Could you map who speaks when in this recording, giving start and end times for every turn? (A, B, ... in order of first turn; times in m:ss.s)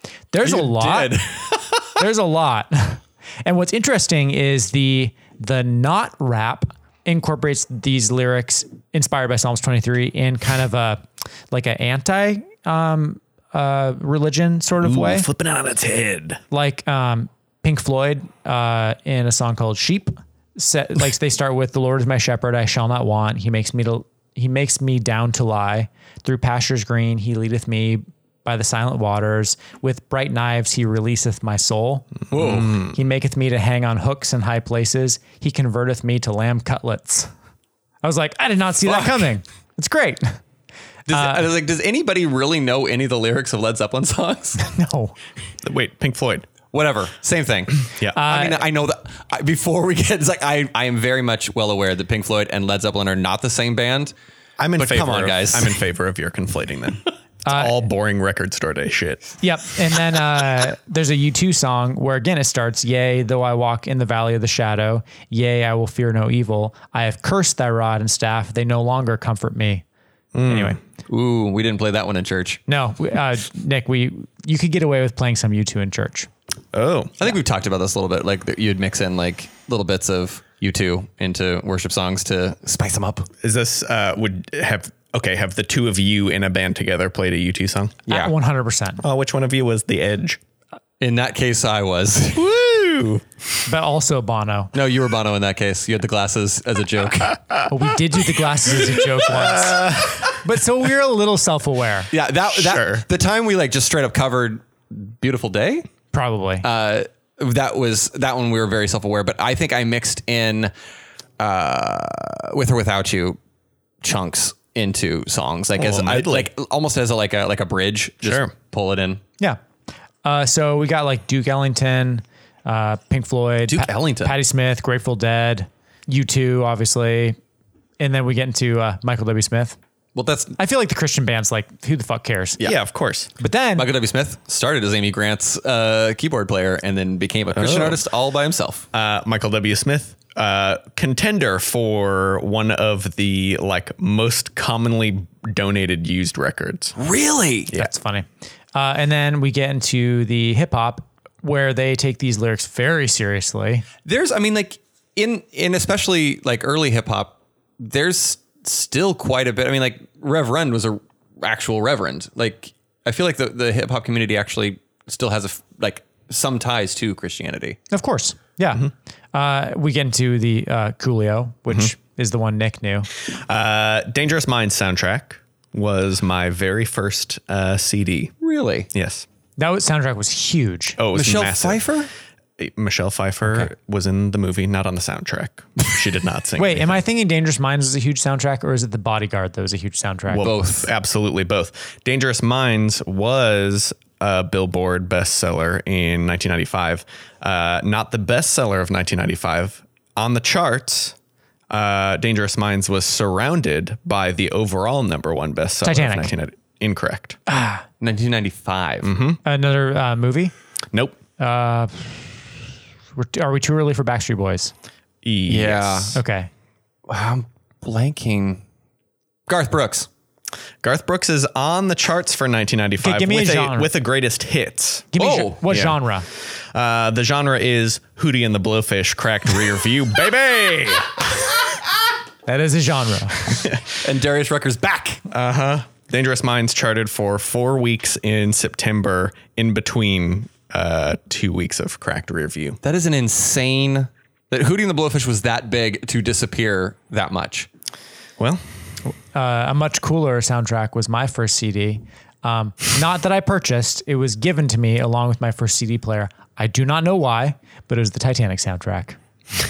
0:00.3-0:01.2 A
0:00.4-0:02.0 B
0:02.0-0:15.3 A
0:14.8-0:16.4 C
0:16.5-0:37.3 A
0:32.3-0:32.8 B
0:38.0-0:40.4 A
0:38.8-0:39.3 B
0:41.1-0:44.6 B
0:41.1-0:41.5 A
0:44.6-0:45.1 A
0:45.6-0:46.5 C
0:46.7-0:54.1 B
0:48.1-0:48.6 A
0:54.6-0:59.3 C
0:54.8-0:55.8 B
0:57.4-0:57.8 A
0:59.4-1:09.8 A
1:10.3-1:10.8 C
1:10.4-1:10.8 A
1:11.1-1:12.6 B
1:12.7-1:16.3 A
1:16.7-1:17.2 C
1:17.2-1:23.3 B
1:23.4-1:28.0 C
1:28.1-1:29.0 A
1:29.0-1:30.4 C
1:31.0-1:33.0 B
1:32.6-1:33.2 C
1:33.6-1:34.7 A
1:34.7-1:37.4 B
1:37.7-1:42.1 A
1:39.3-1:40.4 C
1:42.1-1:45.8 B
1:42.5-1:43.0 C
1:46.1-1:46.6 A
1:46.6-1:50.7 B
1:51.4-1:53.4 B
1:54.0-1:59.2 B
1:55.8-1:56.5 C
1:58.2-1:58.5 C
2:00.2-2:07.4 A
2:03.7-2:04.3 B
2:08.0-2:09.8 A
2:10.1-2:10.6 B
2:10.6-2:12.6 A
2:12.6-2:13.3 C
2:13.4-2:13.9 A
2:13.8-2:18.8 B
2:17.5-2:18.0 C
2:18.9-2:27.0 C
2:27.0-2:27.7 B
2:27.7-2:33.8 A
2:34.0-2:47.8 B
2:47.9-2:53.1 A
2:53.3-2:58.3 C
2:58.4-2:58.9 B
2:58.9-2:59.2 C
2:59.6-3:01.0 A
3:01.0-3:01.8 C
3:01.1-3:02.1 B
3:02.6-3:07.0 C
3:03.4-3:03.7 B
3:06.6-3:10.5 A
3:10.3-3:21.2 C
3:10.4-3:10.9 B
3:21.7-3:27.4 C
3:25.8-3:26.3 A
3:27.5-3:27.8 A
3:28.0-3:29.1 B
3:29.0-3:29.4 C
3:29.4-3:30.5 A
3:31.4-3:32.4 A
3:33.2-3:34.7 A
3:35.2-3:36.1 C
3:35.5-3:36.2 B
3:36.1-3:36.5 A
3:37.1-3:38.6 B
3:39.5-3:40.1 B
3:40.8-3:46.0 C
3:43.0-3:43.9 A
3:45.1-3:46.3 A
3:45.2-3:45.6 B
3:46.6-3:51.3 C
3:52.5-3:53.7 A
3:54.0-3:55.2 B
3:55.3-4:02.8 C
4:02.8-4:07.7 B
4:09.3-4:19.2 A